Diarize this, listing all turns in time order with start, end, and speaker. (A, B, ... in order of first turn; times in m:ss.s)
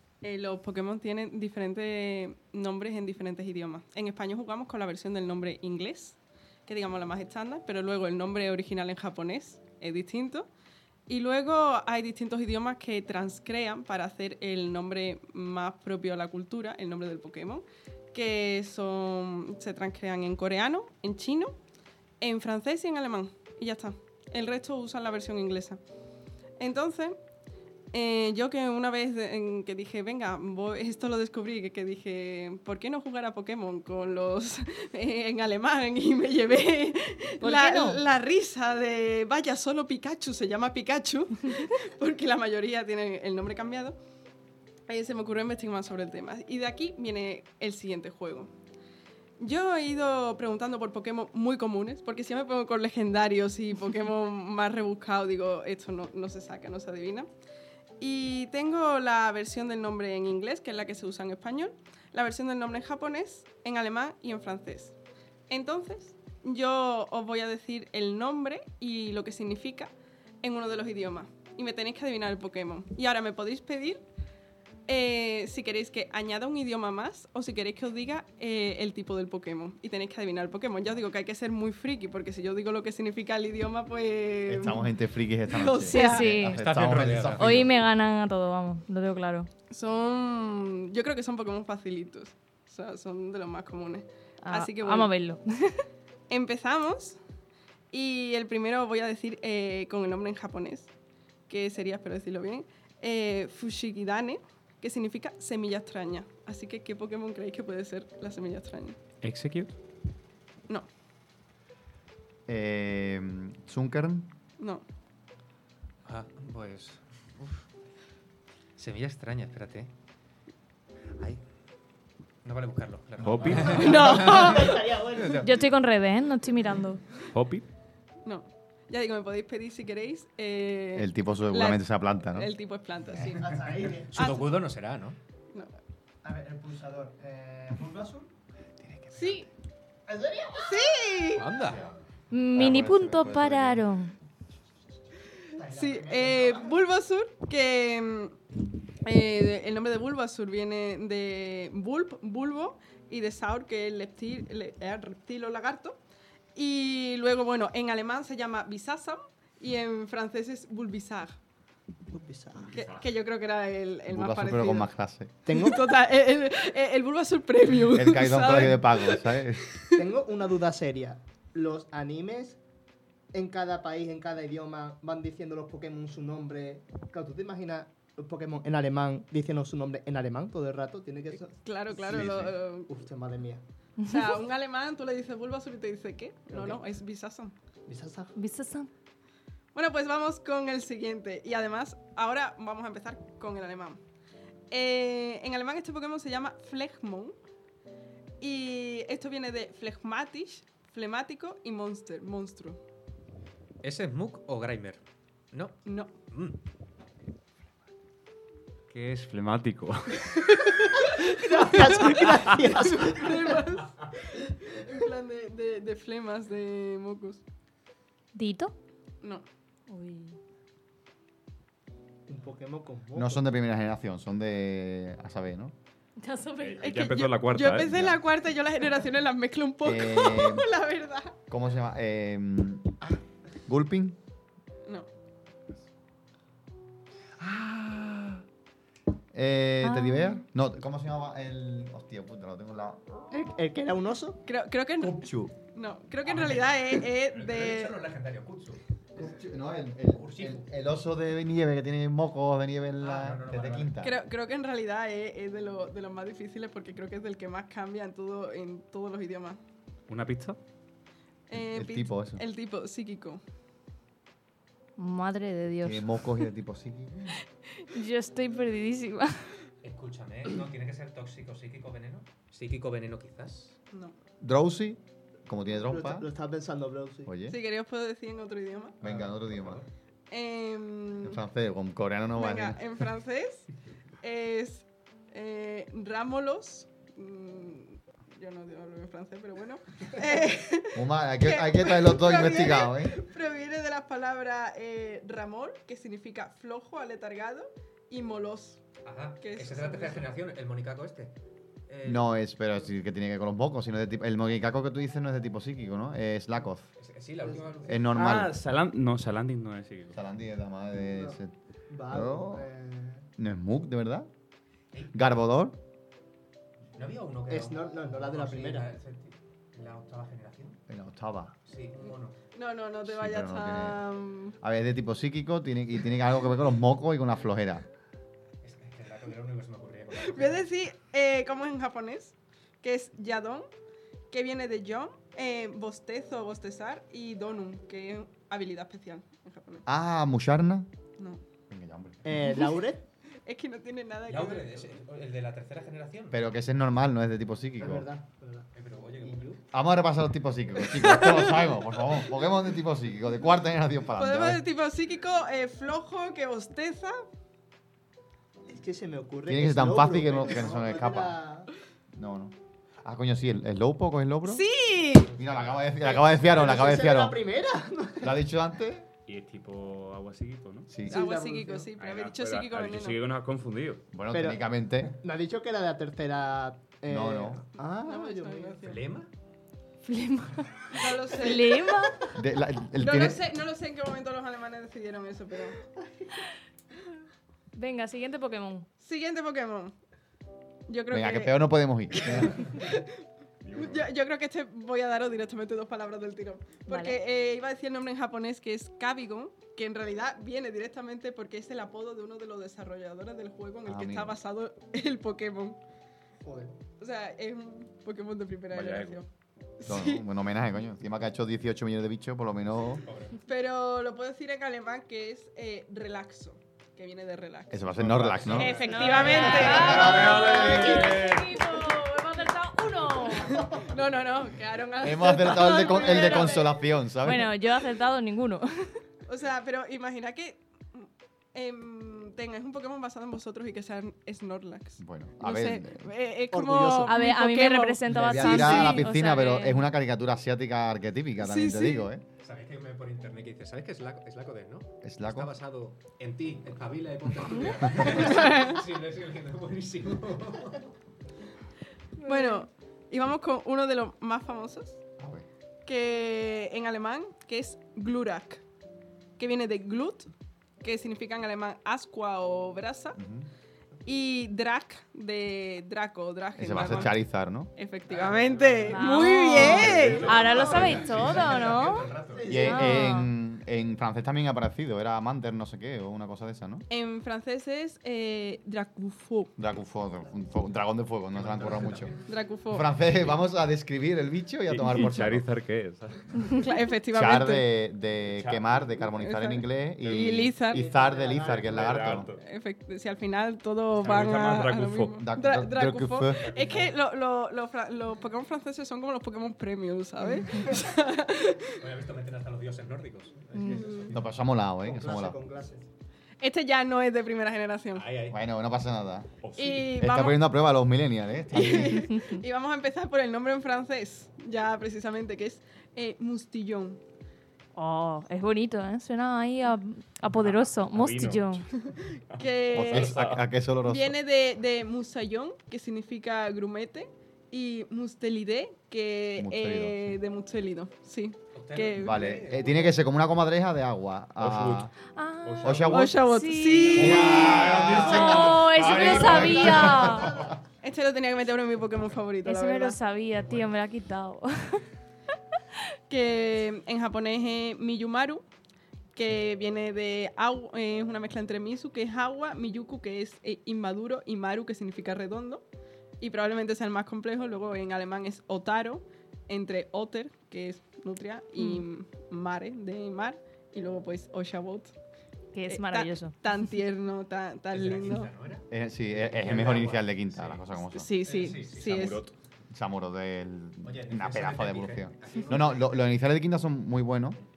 0:00.2-0:10.5 A
0:11.1-0:21.5 A
0:22.2-0:25.8 A
0:26.6-0:27.2 A
0:27.9-0:44.0 A
0:37.4-0:38.0 B
0:44.9-0:48.5 A
0:49.4-0:57.3 A
0:58.0-1:05.0 A
1:05.5-1:09.9 A
1:10.4-1:14.0 A
1:14.9-1:24.9 A
1:24.5-1:27.7 C
1:25.5-1:26.3 A
1:25.8-1:26.6 B
1:26.5-1:27.7 D
1:27.3-1:29.5 B
1:29.7-1:35.1 A
1:34.4-1:35.8 B
1:36.3-1:37.2 A
1:37.9-1:40.9 A
1:41.5-1:49.0 A
1:49.2-1:49.7 E
1:52.5-1:54.3 C
1:54.6-1:54.8 A
1:56.0-1:57.6 D
1:58.8-1:59.9 D
2:02.4-2:05.5 D
2:03.2-2:03.9 E
2:03.4-2:05.5 F
2:03.7-2:04.8 A
2:05.4-2:07.0 B
2:07.3-2:07.6 E
2:08.2-2:13.5 A
2:11.0-2:12.5 C
2:13.2-2:14.3 F
2:14.0-2:15.2 D
2:14.1-2:14.5 A
2:16.2-2:18.3 F
2:18.8-2:19.4 D
2:19.1-2:19.4 A
2:20.1-2:21.1 F
2:20.6-2:21.6 A
2:21.4-2:21.9 D
2:21.7-2:21.9 C
2:22.3-2:24.1 B
2:22.5-2:23.8 C
2:25.5-2:26.8 F
2:25.7-2:28.3 A
2:29.0-2:36.0 A
2:36.5-2:41.4 A
2:42.1-2:42.8 F
2:42.7-2:44.9 A
2:44.1-2:45.3 C
2:45.4-2:45.8 F
2:45.5-2:50.0 A
2:47.9-2:49.6 C
2:49.9-2:52.6 F
2:53.3-3:02.2 F
3:01.6-3:02.9 A
3:02.0-3:02.5 C
3:02.9-3:03.6 F
3:04.0-3:07.5 A
3:06.5-3:06.8 F
3:07.9-3:08.3 F
3:08.4-3:08.9 B
3:09.7-3:14.0 A
3:14.7-3:17.4 A
3:18.4-3:22.8 A
3:23.8-3:25.0 D
3:25.5-3:25.8 D
3:25.8-3:26.1 A
3:26.3-3:26.6 D
3:28.9-3:30.6 E
3:31.0-3:33.4 F
3:31.0-3:37.4 A
3:38.3-3:38.7 B
3:39.9-3:40.4 B
3:42.3-3:43.4 F
3:43.1-3:45.7 C
3:46.2-3:46.8 B
3:46.6-3:48.2 E
3:46.8-3:51.3 A
3:49.8-3:50.7 C
3:51.5-3:53.1 C
3:53.7-3:54.2 C
3:57.5-3:58.3 E
3:59.3-4:03.2 C
3:59.8-4:00.4 B
4:03.3-4:04.4 F
4:04.4-4:08.0 A
4:05.0-4:05.5 C
4:06.2-4:08.8 D
4:09.1-4:14.2 C
4:10.1-4:10.6 D
4:13.0-4:14.0 D
4:14.0-4:19.6 A
4:20.1-4:20.6 E
4:21.5-4:23.4 A
4:21.5-4:22.4 C
4:25.0-4:26.1 B
4:25.8-4:27.4 C
4:27.9-4:29.5 B
4:29.8-4:33.8 D
4:33.9-4:34.2 A
4:34.4-4:36.3 C
4:35.9-4:37.3 F
4:37.2-4:37.6 C
4:37.5-4:39.0 A
4:39.0-4:39.8 C
4:39.0-4:39.9 D
4:40.3-4:41.4 A
4:41.2-4:42.8 C
4:42.4-4:43.7 A
4:44.2-4:58.8 A
4:50.9-4:53.2 C
4:59.0-5:01.3 D
4:59.4-5:00.3 A
5:01.9-5:02.3 D
5:02.0-5:06.9 C
5:07.0-5:08.2 D
5:07.4-5:07.8 F
5:07.8-5:08.6 C
5:08.1-5:10.2 E
5:10.1-5:11.5 C
5:11.0-5:13.2 F
5:12.1-5:12.7 C
5:13.4-5:14.3 C
5:15.1-5:15.8 C
5:16.9-5:20.8 D
5:17.5-5:18.9 F
5:20.9-5:21.5 C
5:21.6-5:22.4 D
5:22.5-5:24.6 A
5:23.0-5:24.0 C
5:24.6-5:27.8 C
5:28.6-5:30.6 D
5:30.2-5:33.7 A
5:34.3-5:39.8 A
5:39.8-5:40.9 C
5:41.2-5:41.4 A
5:41.7-5:42.4 C
5:42.2-5:43.0 F
5:43.4-5:44.8 A
5:44.3-5:46.4 D
5:46.3-5:48.1 C
5:47.8-5:48.7 F
5:48.7-5:49.6 D
5:49.2-5:49.5 F
5:49.7-5:54.6 C
5:50.9-5:51.7 A
5:54.2-5:57.2 A
5:58.6-6:01.7 F
5:59.4-6:01.4 C
6:02.1-6:04.6 C
6:04.4-6:05.4 A
6:05.4-6:07.4 C
6:05.4-6:06.3 D
6:06.4-6:08.4 F
6:08.2-6:09.1 C
6:09.2-6:10.9 E
6:10.9-6:11.2 C
6:11.0-6:11.9 F
6:11.1-6:13.2 A
6:12.0-6:14.0 E
6:14.1-6:15.1 C
6:14.3-6:18.9 F
6:17.1-6:17.6 C
6:17.8-6:19.1 A
6:18.8-6:19.3 D
6:20.0-6:22.2 B
6:20.9-6:21.9 A
6:22.3-6:23.4 C
6:23.0-6:25.8 A
6:27.7-6:28.9 B
6:29.0-6:29.9 A
6:30.9-6:33.1 A
6:31.1-6:32.7 C
6:33.6-6:34.1 E
6:33.7-6:45.8 A
6:36.9-6:37.2 B
6:43.8-6:44.4 C
6:46.4-6:46.7 F
6:47.0-6:49.3 A
6:48.7-6:49.2 E
6:49.8-6:50.2 A
6:49.8-6:53.0 C
6:52.8-6:53.4 D
6:53.4-6:57.8 A
6:57.7-6:58.8 C
6:57.9-7:01.4 E
6:58.4-6:59.8 D
6:58.6-7:01.8 A
6:58.6-7:03.6 B
6:59.7-7:00.2 C
7:03.3-7:06.8 A
7:05.0-7:07.5 C
7:07.2-7:08.9 B
7:09.2-7:19.1 A
7:15.0-7:16.1 C
7:16.5-7:17.2 F
7:17.0-7:19.9 B
7:18.1-7:22.2 C
7:21.4-7:22.1 A
7:22.4-7:30.8 D
7:25.0-7:25.5 C
7:28.1-7:28.8 A
7:32.2-7:35.0 A
7:32.2-7:32.7 B
7:35.2-7:35.4 C
7:35.8-7:38.6 A
7:39.4-7:40.3 A
7:40.8-7:43.2 A
7:43.2-7:43.5 C
7:44.0-7:47.2 A
7:46.6-7:47.7 C
7:46.7-7:47.1 D
7:47.8-7:51.1 A
7:48.1-7:52.6 D
7:48.9-7:53.3 B
7:49.5-7:51.6 C
7:49.8-7:50.5 F
7:52.2-7:53.0 F
7:52.5-7:56.8 C
7:56.9-7:59.5 A
7:59.6-8:02.1 C
8:01.3-8:03.4 D
8:02.3-8:02.9 A
8:02.7-8:05.5 C
8:04.7-8:06.5 E
8:06.6-8:07.7 A
8:07.1-8:12.3 C
8:08.3-8:08.6 E
8:09.2-8:10.8 A
8:10.7-8:11.9 F
8:11.4-8:12.4 E
8:12.4-8:21.8 A
8:13.9-8:15.2 E
8:15.2-8:16.6 C
8:16.5-8:16.8 E
8:21.8-8:24.2 D
8:23.5-8:23.9 B
8:23.6-8:24.1 F
8:23.9-8:25.4 C
8:24.8-8:25.9 F
8:26.4-8:28.1 A
8:27.9-8:28.4 D
8:28.3-8:29.3 C
8:29.6-8:30.4 A
8:29.9-8:32.1 C
8:31.5-8:37.0 A
8:37.8-8:41.6 B
8:40.3-8:43.4 E
8:42.4-8:43.2 A
8:42.7-8:44.1 C
8:43.8-8:52.2 A
8:49.4-8:50.1 C
8:51.5-8:53.0 D
8:52.0-8:54.9 C
8:54.4-8:54.9 E
8:55.1-8:57.2 B
8:55.4-8:56.2 E
8:55.6-8:56.2 C
8:55.9-8:57.9 A
8:56.9-9:00.4 C
8:56.9-8:59.7 E
8:58.0-9:00.4 B
9:00.8-9:03.0 A
9:02.4-9:04.8 B
9:03.3-9:03.7 D
9:06.1-9:08.4 A
9:09.1-9:15.6 A
9:16.2-9:24.9 A
9:21.6-9:21.8 B
9:25.5-9:26.3 B
9:25.7-9:28.3 A
9:27.7-9:30.6 D
9:28.7-9:31.1 C
9:30.9-9:32.3 A
9:31.2-9:32.1 D
9:31.9-9:32.3 E
9:32.7-9:37.4 C
9:33.8-9:36.1 D